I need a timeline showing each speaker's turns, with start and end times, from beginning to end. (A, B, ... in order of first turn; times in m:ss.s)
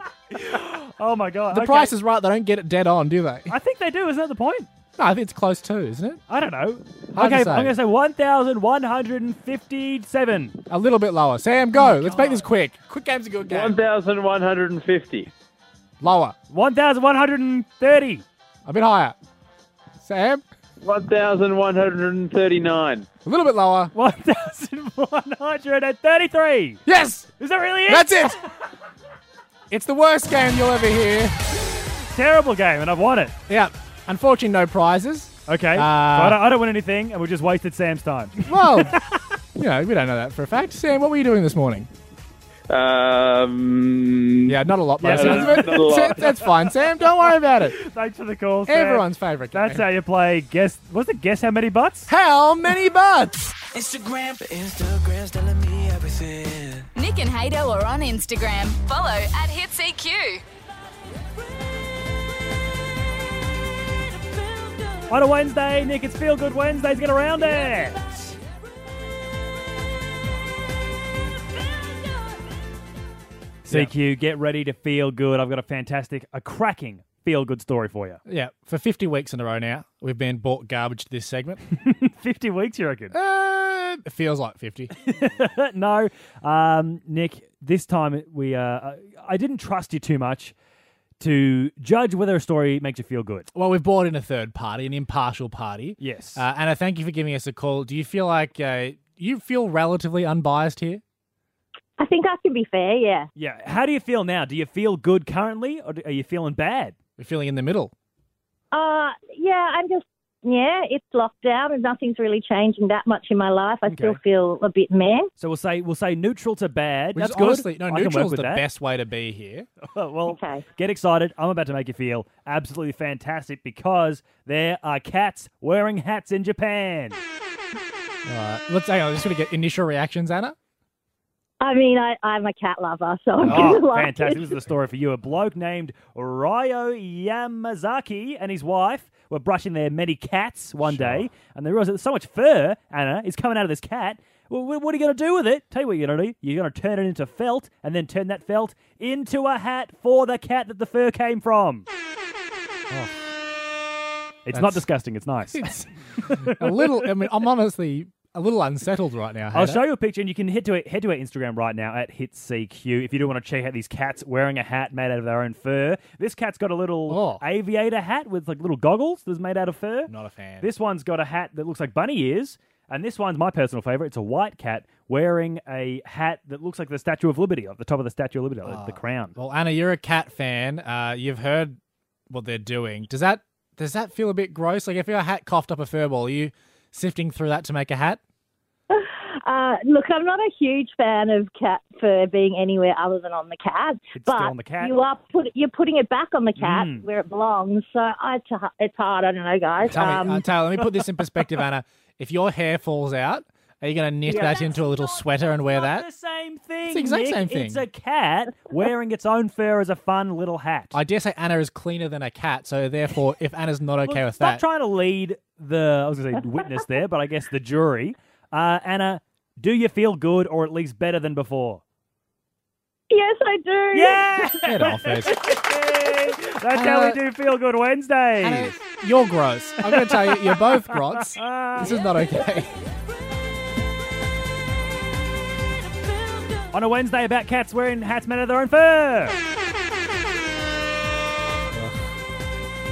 0:00.3-0:01.9 A
0:01.5-0:03.5 B
0:03.5-0:04.7 A
0:05.0-0:06.2 B
0:06.3-0:10.6 A
0:07.1-0:07.8 B
0:10.7-0:13.8 B
0:11.8-0:12.4 A
0:13.6-0:15.3 C
0:16.0-0:16.4 B
0:16.5-0:18.2 A
0:18.6-0:19.2 B
0:20.0-0:20.4 B
0:20.8-0:23.0 C
0:21.3-0:23.0 D
0:23.2-0:23.9 B
0:23.9-0:26.8 A
0:26.9-0:27.3 B
0:27.4-0:28.4 A
0:27.9-0:28.4 B
0:29.7-0:31.4 B
0:31.9-0:33.3 A
0:33.5-0:36.4 B
0:35.5-0:39.0 A
0:38.4-0:39.0 B
0:39.6-0:41.9 B
0:42.7-0:44.4 D
0:44.5-0:47.8 B
0:45.0-0:46.3 A
0:45.1-0:46.1 D
0:47.4-0:52.1 A
0:48.7-0:49.9 B
0:52.1-0:53.5 B
0:53.7-0:56.8 E
0:57.0-1:00.4 F
1:05.1-1:08.3 A
1:13.6-1:18.2 A
1:13.7-1:13.9 B
1:18.2-1:21.6 B
1:21.8-1:23.1 A
1:23.1-1:25.0 B
1:25.0-1:30.6 A
1:31.2-1:33.5 A
1:33.5-1:41.0 B
1:36.0-1:36.4 A
1:42.0-1:43.3 C
1:43.4-1:47.0 A
1:47.2-1:47.9 B
1:48.7-1:55.3 C
1:53.9-1:54.2 A
1:55.4-1:58.6 A
1:57.1-1:59.7 B
1:59.9-2:07.2 A
2:00.3-2:00.6 C
2:08.2-2:10.6 B
2:11.6-2:14.6 C
2:13.4-2:13.8 B
2:13.4-2:31.9 A
2:20.8-2:21.3 B
2:34.5-2:37.1 A
2:34.5-2:34.9 B
2:35.5-2:39.8 B
2:39.5-2:59.3 A
2:47.1-2:47.4 B
2:50.1-2:50.7 B
2:58.6-3:01.8 B
3:02.3-3:08.2 B
3:08.9-3:20.4 C
3:14.1-3:15.0 A
3:16.6-3:17.1 A
3:19.8-3:26.1 B
3:24.3-3:30.9 A
3:26.9-3:27.8 B
3:30.9-3:34.6 B
3:34.0-3:41.8 A
3:43.1-3:44.4 C
3:43.9-3:48.7 A
3:44.6-3:45.4 B
3:46.7-3:47.2 B
3:48.4-3:52.7 B
3:49.8-3:51.9 A
3:56.7-3:59.4 A
4:01.7-4:02.0 B